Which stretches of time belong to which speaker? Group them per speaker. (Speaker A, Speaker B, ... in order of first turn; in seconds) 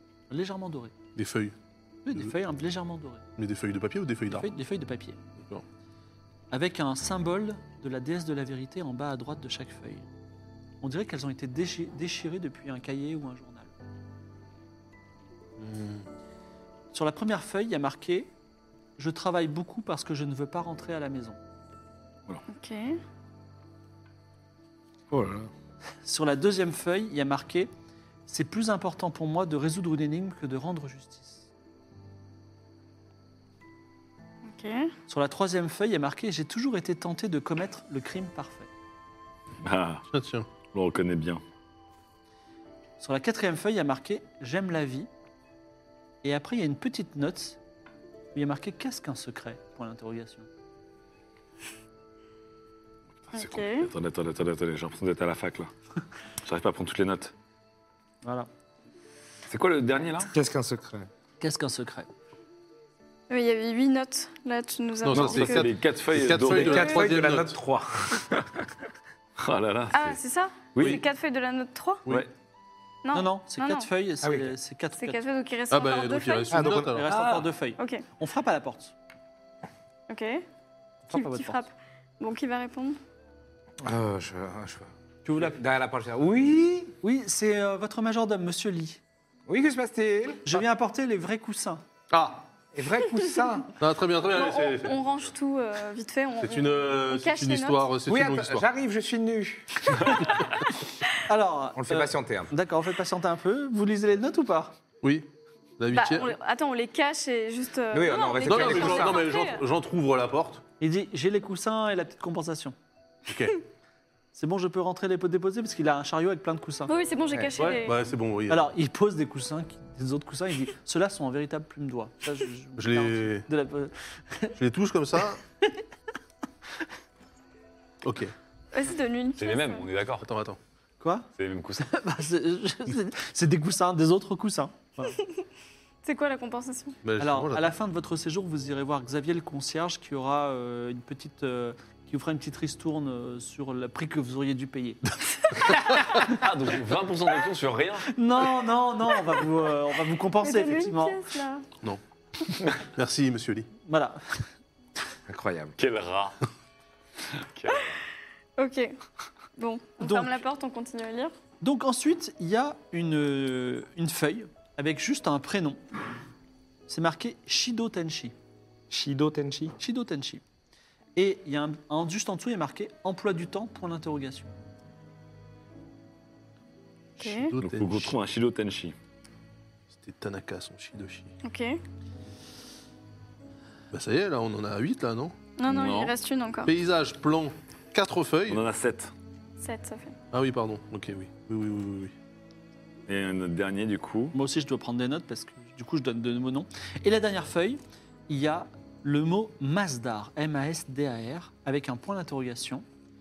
Speaker A: 0.3-0.9, 2.0-3.2, 4.3-5.2, 6.5-10.1, 10.8-13.7, 16.9-18.3, 19.0-21.4, 26.0-27.7, 28.3-31.5, 35.1-38.7, 43.0-45.1, 46.2-47.6, 48.3-50.5, 58.2-58.5, 61.4-62.1, 73.1-75.2, 76.9-78.9, 81.1-81.6, 85.3-85.5, 87.0-89.0, 90.4-91.8, 101.2-104.7, 110.8-112.7, 114.3-116.9, 118.5-124.6, 131.0-131.3, 131.8-135.2, 137.2-146.3, 148.1-151.2, 153.8-154.4, 160.0-160.4, 161.6-165.8, 166.9-168.3, 169.8-170.4, 171.2-174.5, 194.3-202.8
Speaker B: 1.1-1.5, 3.4-4.5, 15.6-16.1, 40.1-40.5, 65.0-67.6, 75.7-77.1, 92.1-92.4, 93.8-95.0, 96.4-98.7, 105.0-106.3, 108.5-110.6, 113.3-113.5, 117.6-118.7, 122.8-123.5, 124.6-125.4, 128.0-128.3, 130.2-130.6, 137.0-137.7, 152.7-153.7, 177.3-178.1, 179.9-181.3, 183.9-185.3, 186.7-188.6, 190.3-192.1
Speaker C: 22.5-23.0, 34.4-34.9, 53.3-53.9, 63.3-65.7, 69.9-72.0, 73.0-73.9, 75.0-76.7, 77.8-78.0, 80.1-80.4, 81.1-83.0, 94.3-97.9, 105.9-109.6, 116.9-118.1, 128.7-129.9, 136.0-137.0, 150.4-151.7, 158.6-158.9, 159.6-161.3, 177.2-177.6, 181.4-181.8, 185.6-186.7, 189.6-190.1
Speaker D: 25.1-25.5, 60.3-61.1, 66.5-68.7, 74.2-74.5, 76.5-77.4, 83.8-87.0, 89.5-90.6, 92.7-93.7, 98.1-99.9, 101.7-102.5, 107.9-109.3, 155.3-155.8, 168.9-169.8
Speaker E: 39.6-40.0, 40.6-41.4, 53.2-55.7, 56.4-57.3, 59.5-60.3, 65.1-67.1, 69.4-70.2, 70.7-71.0, 129.4-130.3, 131.4-131.9, 146.2-148.1, 155.8-156.4, 157.3-158.0, 177.6-178.9, 185.7-186.1, 188.5-189.1, 193.1-194.3